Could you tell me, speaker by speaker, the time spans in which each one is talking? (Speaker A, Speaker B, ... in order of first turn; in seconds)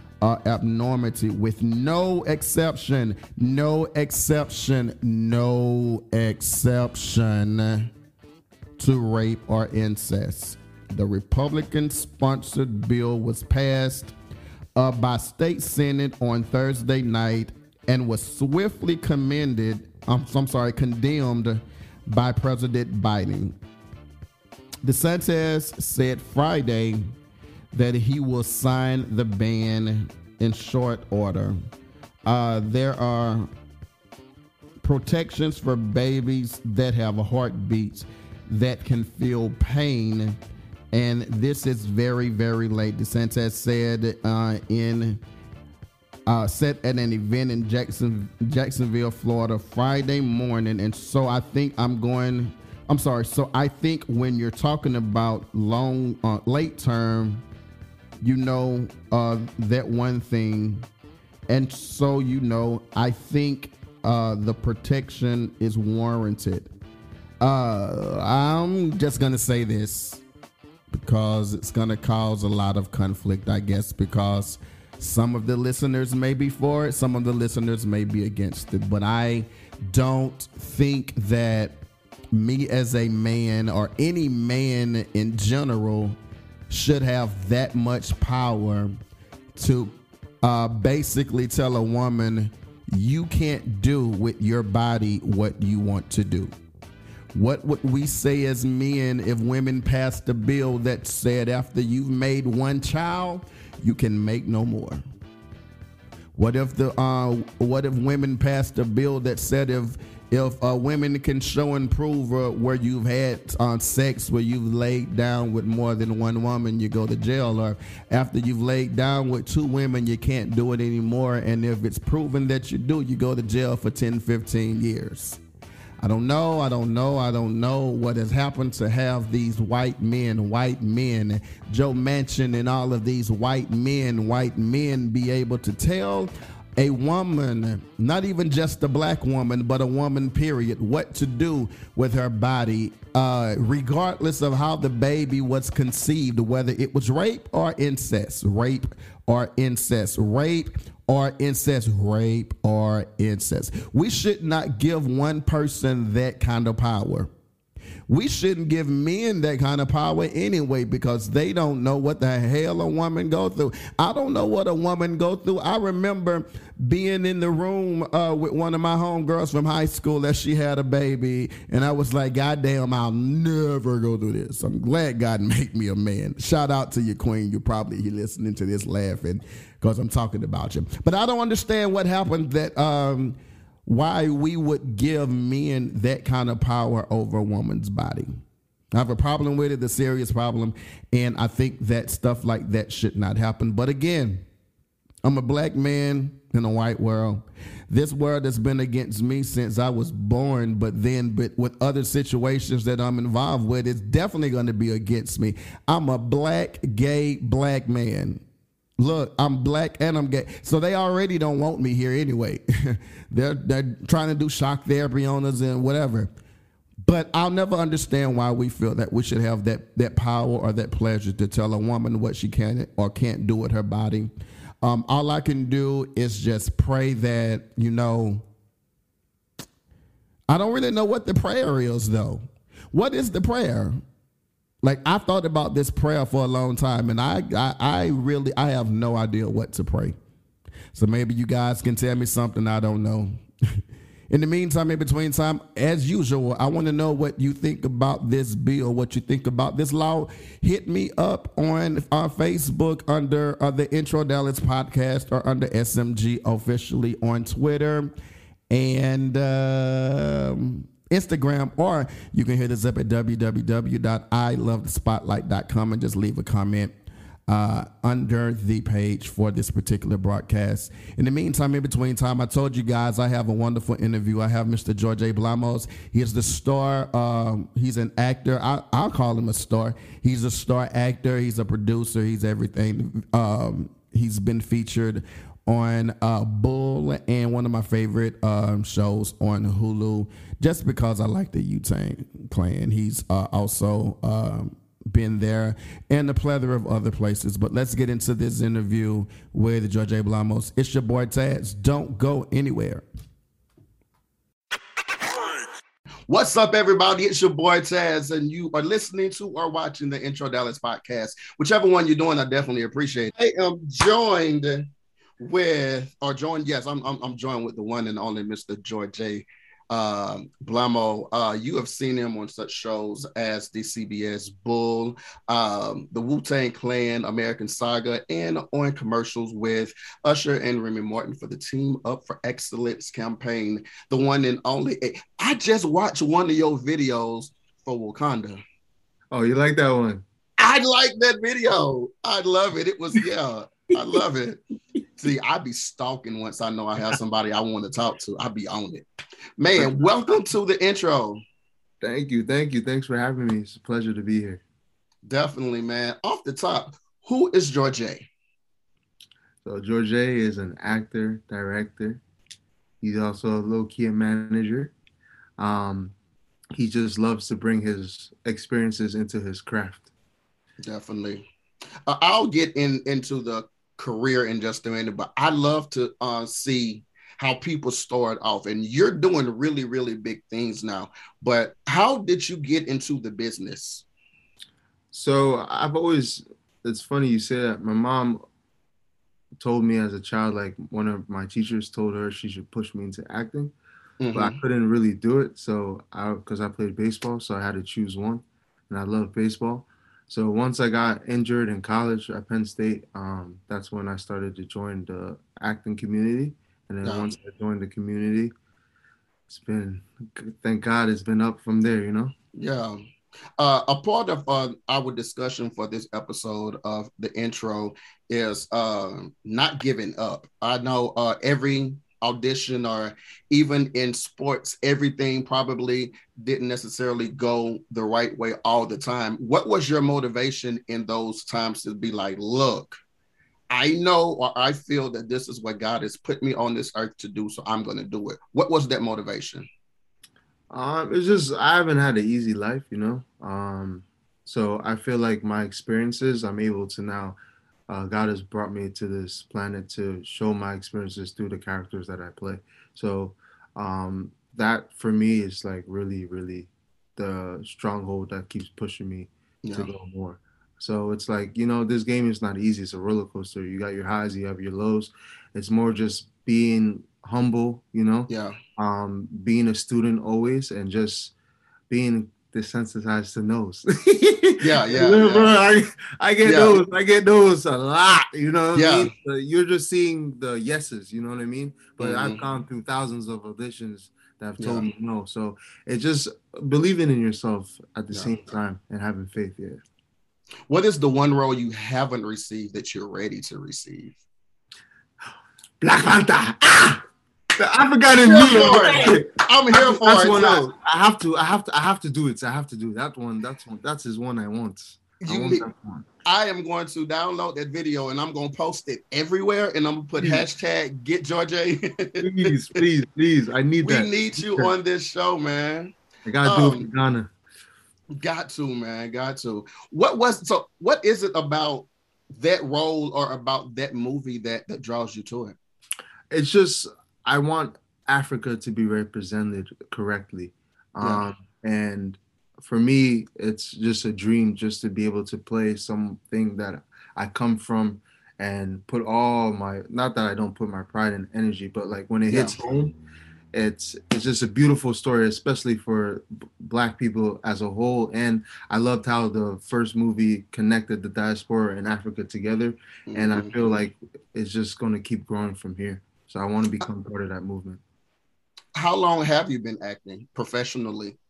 Speaker A: 0.2-7.9, 8.8-14.1, 14.7-23.6, 24.8-27.1, 27.7-31.6, 32.2-33.5, 34.8-40.4, 40.9-45.2, 46.2-57.4, 58.2-60.9, 61.5-66.7, 67.4-70.2, 70.9-81.8, 82.3-86.2, 86.7-89.0, 89.5-96.5, 97.3-105.0, 106.3-125.4, 126.0-157.3, 158.1-188.4, 188.9-194.4, 195.2-208.4, 209.0-216.3, 217.0-228.4, 230.5-234.0, 234.8-240.2, 240.9-243.4, 244.3-258.1, 258.7-266.9, 267.5-303.0, 305.3-305.6, 306.3-314.9, 315.4-338.6, 340.6-344.6, 345.2-349.1, 349.6-351.4, 355.2-358.3, 370.8-371.4, 372.1-384.0, 394.2-394.6, 412.5-413.0, 413.6-433.0, 433.7-439.7, 459.6-459.9, 468.3-468.6, 474.6-475.6, 476.4-476.8, 478.7-479.1, 482.0-482.4, 484.6-484.9, 490.7-494.2, 498.2-500.7, 505.2-505.6, 506.2-512.5, 513.8-516.9, 518.1-525.5, 542.3-542.6, 553.1-553.8, 558.8-561.2
Speaker B: 339.3-340.2, 352.0-354.6, 359.6-362.2, 363.0-364.9, 365.6-366.1, 366.7-370.1, 385.1-388.4, 389.6-393.7, 394.3-408.5, 409.5-412.3, 440.7-447.4, 447.9-471.3, 471.9-489.8, 495.8-497.0, 497.6-506.1, 510.2-510.4, 512.2-514.7, 516.2-517.3, 526.3-543.0, 543.5-557.8